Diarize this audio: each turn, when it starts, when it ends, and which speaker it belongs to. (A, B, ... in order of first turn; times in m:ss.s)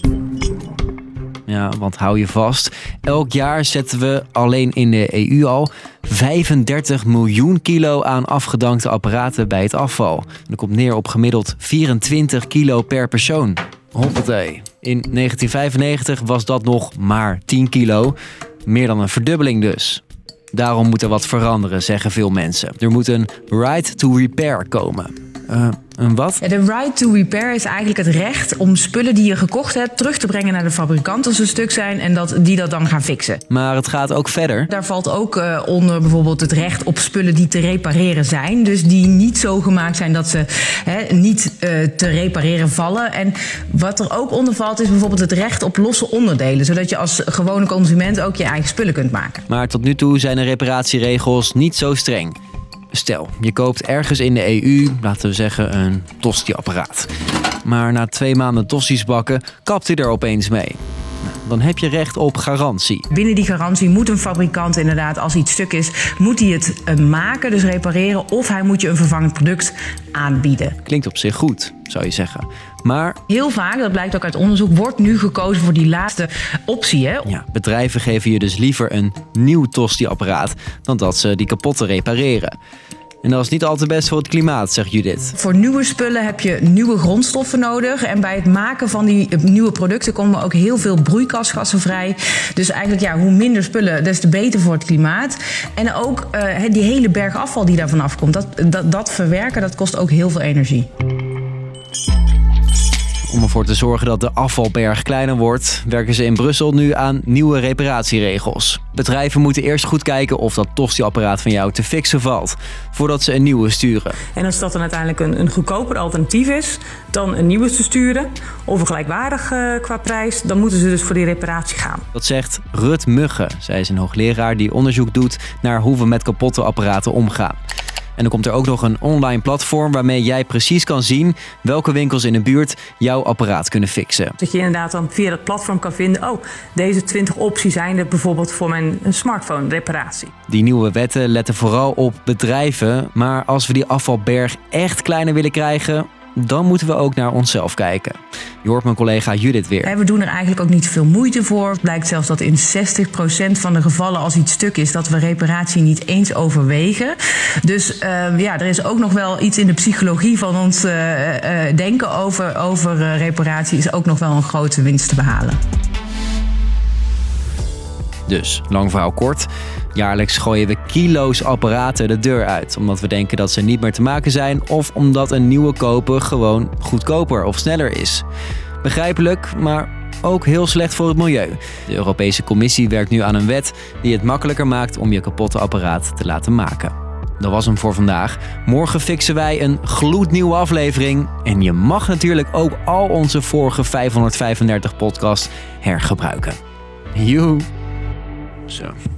0:01.5-0:18.1 A
0:18.6-0:26.4 A
0:26.4-0:33.4 B
0:33.5-0:34.7 A
0:34.7-0:49.4 B
0:49.5-0:52.4 A
0:52.9-0:57.1 A
0:57.6-1:03.0 A
1:03.2-1:10.8 B
1:10.8-1:13.2 A
1:13.4-1:17.2 B
1:17.2-1:22.5 A
1:23.2-1:25.3 A
1:25.4-1:40.9 B
1:43.3-1:54.2 A
1:54.3-2:02.0 C
2:02.1-2:07.6 A
2:08.2-2:14.4 A
2:14.4-2:20.3 C
2:20.5-2:29.9 A
2:29.8-2:45.6 B
2:48.3-2:58.2 A
2:58.8-3:16.6 A
3:17.1-3:17.7 A
3:18.7-3:18.9 A